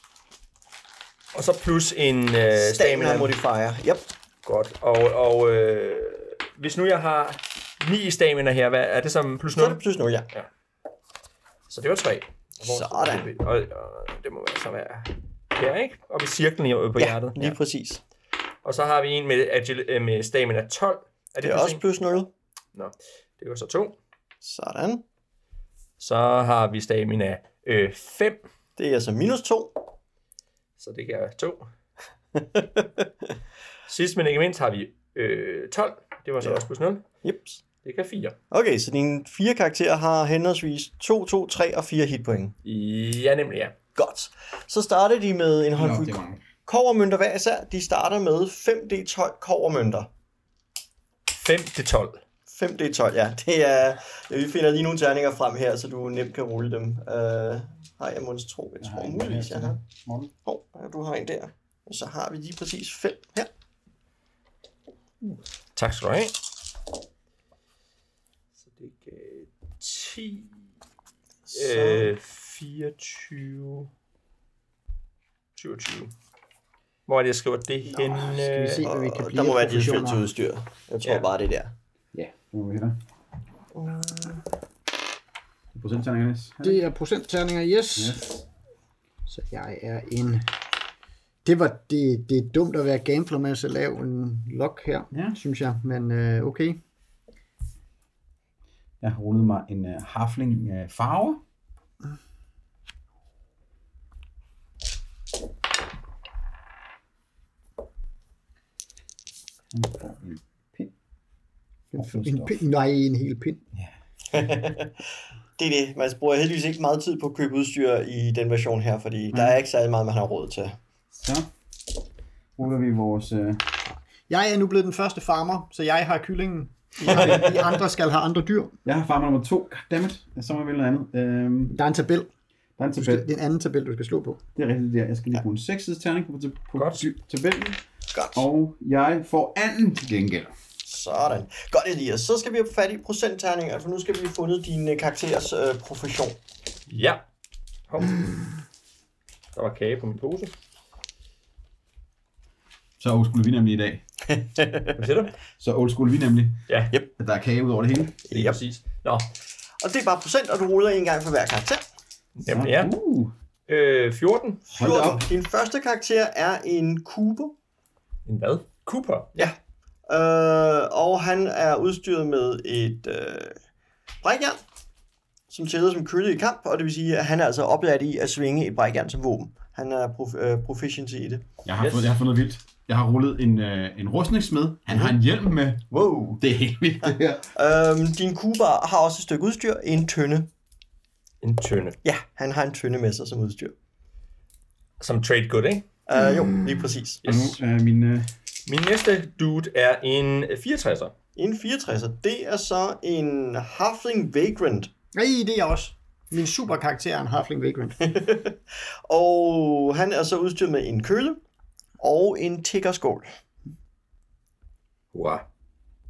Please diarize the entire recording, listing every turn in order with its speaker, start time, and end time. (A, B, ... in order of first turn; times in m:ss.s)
0:01.3-0:03.3 A
0:02.5-0:04.0 B
0:04.4-0:09.8 A
0:09.5-0:10.3 B
0:11.7-0:17.6 A
0:12.6-0:13.3 B
0:17.0-0:18.0 B
0:18.6-0:21.8 A
0:21.4-0:22.3 B
0:22.7-0:24.0 A
0:24.4-0:25.0 B
0:26.0-0:28.4 A
0:28.8-0:29.9 B
0:30.8-0:31.7 A
0:32.4-0:33.0 B
0:33.9-0:37.0 A
0:37.2-0:37.6 B
0:37.8-0:38.4 A
0:38.5-0:42.5 B
0:42.6-0:43.7 A
0:43.9-0:50.1 B
0:45.7-0:46.4 C
0:51.3-0:52.2 A
0:52.5-0:59.8 B
0:58.8-1:00.3 C
1:00.4-1:03.5 B
1:05.2-1:06.4 A
1:08.6-1:10.5 A
1:11.5-1:12.1 B
1:11.5-1:13.9 A
1:15.6-1:16.1 A
1:17.1-1:18.8 A
1:18.0-1:20.2 D
1:18.8-1:21.7 B
1:22.1-1:23.0 C
1:23.7-1:24.4 B
1:25.7-1:26.8 C
1:26.6-1:28.3 D
1:27.9-1:28.3 C
1:29.3-1:30.5 D
1:31.4-1:36.8 D
1:35.1-1:35.4 C
1:39.0-1:41.4 C
1:49.7-1:50.9 C
1:51.9-1:53.6 D
1:51.9-1:52.6 C
1:53.7-1:54.4 C
1:54.3-1:54.9 B
1:55.6-2:00.8 B
1:59.3-1:59.6 C
2:01.1-2:01.5 C
2:02.6-2:03.6 C
2:04.3-2:08.8 D
2:07.0-2:07.7 B
2:08.8-2:11.8 C
2:11.7-2:12.3 D
2:12.8-2:13.3 C
2:13.0-2:14.4 D
2:14.5-2:17.8 C
2:16.8-2:17.0 A
2:18.1-2:18.4 B
2:18.3-2:20.5 C
2:20.8-2:26.4 B
2:26.9-2:27.2 A
2:27.9-2:28.3 A
2:29.5-2:30.5 A
2:33.0-2:34.0 C
2:34.4-2:34.9 B
2:35.0-2:35.3 A
2:35.6-2:36.6 C
2:36.7-2:36.9 A
2:37.2-2:38.3 C
2:38.3-2:39.3 A
2:38.3-2:38.6 B
2:39.8-2:41.8 B
2:42.4-2:42.9 A
2:42.4-2:43.3 C
2:43.7-2:44.6 A
2:44.7-2:47.5 B
2:44.7-2:45.2 C
2:48.2-2:49.5 A
2:50.1-2:53.6 B
2:54.2-2:54.6 B
2:55.5-3:01.4 B
3:01.6-3:05.8 C
3:01.8-3:02.1 A
3:05.9-3:06.4 B
3:06.4-3:07.5 C
3:07.0-3:10.5 B
3:11.4-3:12.0 A
3:12.0-3:13.7 B
3:15.0-3:15.9 A
3:16.1-3:17.2 B
3:17.2-3:17.6 A
3:17.2-3:18.3 C
3:18.7-3:21.1 A
3:21.4-3:24.9 B
3:25.1-3:28.0 D
3:28.0-3:31.4 B
3:32.0-3:33.2 B
3:35.1-3:35.4 A